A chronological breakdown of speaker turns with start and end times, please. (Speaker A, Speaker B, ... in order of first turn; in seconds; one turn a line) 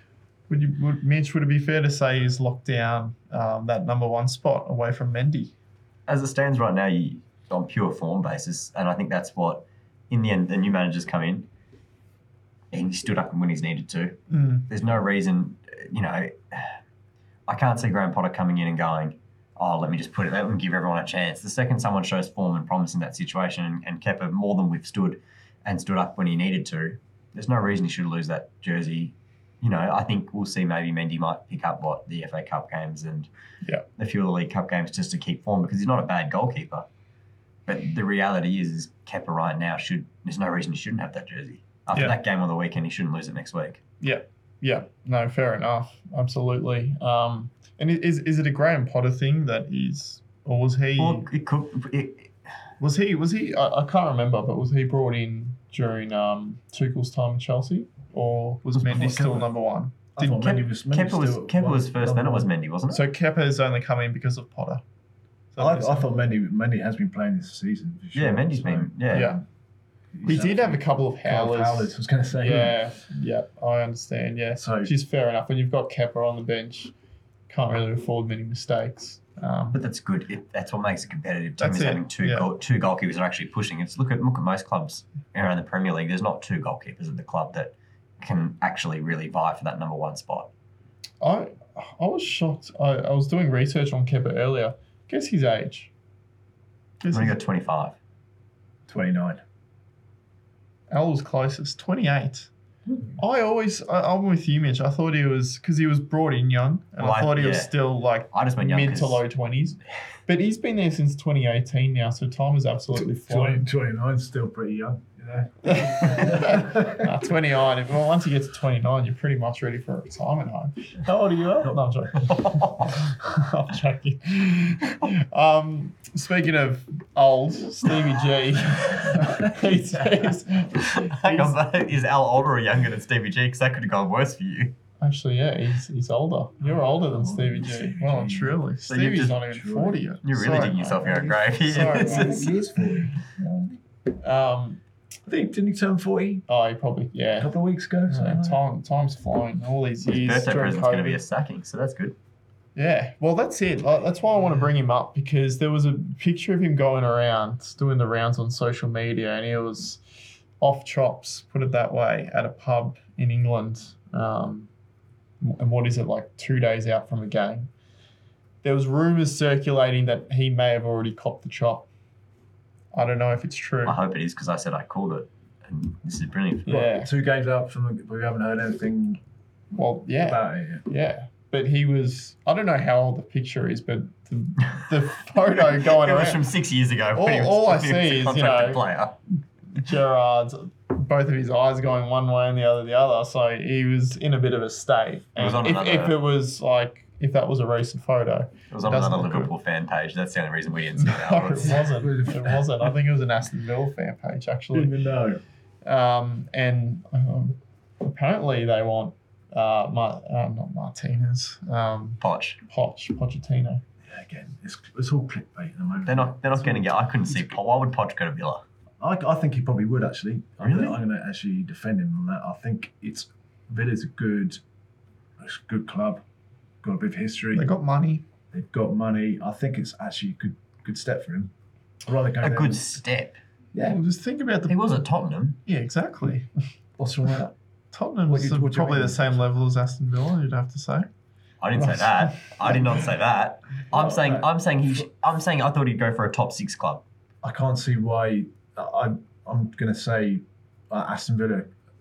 Speaker A: 0.5-5.5
Speaker B: 6.1-11.5
Speaker B: 12.7-16.8
Speaker A: 14.3-14.7
Speaker B: 17.5-33.3
Speaker B: 34.0-36.9
Speaker B: 37.6-43.8
Speaker A: 44.0-51.3
Speaker B: 51.0-52.3
Speaker A: 52.8-60.4
Speaker C: 58.8-59.5
Speaker C: 60.1-62.5
Speaker B: 60.2-63.0
Speaker A: 62.9-64.8
Speaker A: 65.5-66.1
Speaker C: 65.6-69.4
Speaker B: 68.1-69.3
Speaker A: 69.1-69.4
Speaker C: 70.1-72.8
Speaker A: 70.2-76.9
Speaker C: 74.6-74.9
Speaker A: 77.5-79.8
Speaker B: 79.7-90.5
Speaker A: 81.6-82.5
Speaker A: 91.2-95.9
Speaker A: 97.0-97.4
Speaker B: 97.1-98.0
Speaker C: 98.9-99.4
Speaker A: 100.9-102.5
Speaker A: 103.2-113.7
Speaker B: 107.0-107.7
Speaker B: 108.3-109.2
Speaker C: 112.9-117.2
Speaker A: 115.6-131.5
Speaker B: 122.2-123.0
Speaker C: 129.1-129.6
Speaker B: 130.8-134.7
Speaker A: 135.0-142.5
Speaker C: 136.7-138.6
Speaker B: 138.9-139.4
Speaker C: 139.5-140.0
Speaker B: 140.2-142.5
Speaker C: 141.0-143.8
Speaker A: 144.2-144.8
Speaker C: 145.3-146.4
Speaker A: 146.5-147.5
Speaker C: 147.4-148.6
Speaker A: 148.1-151.2
Speaker B: 150.1-152.2
Speaker A: 152.8-160.0
Speaker A: 160.6-164.7
Speaker A: 165.4-167.7
Speaker A: 168.6-171.9
Speaker A: 172.9-174.0
Speaker B: 173.8-176.8
Speaker A: 176.7-177.1
Speaker C: 176.7-179.2
Speaker A: 179.7-186.5
Speaker C: 180.2-180.8
Speaker B: 184.7-184.9
Speaker B: 185.5-189.2
Speaker A: 187.1-188.8
Speaker A: 189.7-199.5
Speaker B: 195.4-196.2
Speaker B: 198.7-201.8
Speaker A: 200.9-204.9
Speaker C: 201.6-202.7
Speaker C: 204.7-205.4
Speaker A: 205.8-213.8
Speaker B: 212.2-212.6
Speaker C: 214.0-217.6
Speaker B: 216.1-218.6
Speaker C: 219.0-224.6
Speaker B: 220.6-221.0
Speaker C: 225.4-226.2
Speaker C: 226.8-227.7
Speaker A: 227.5-228.2
Speaker C: 228.5-231.5
Speaker C: 232.0-233.0
Speaker B: 232.4-233.4
Speaker A: 233.8-235.0
Speaker B: 234.7-235.6
Speaker A: 235.7-236.5
Speaker C: 237.0-237.5
Speaker A: 237.9-241.1
Speaker C: 238.3-239.4
Speaker B: 241.6-247.0
Speaker C: 243.9-245.0
Speaker C: 247.4-251.7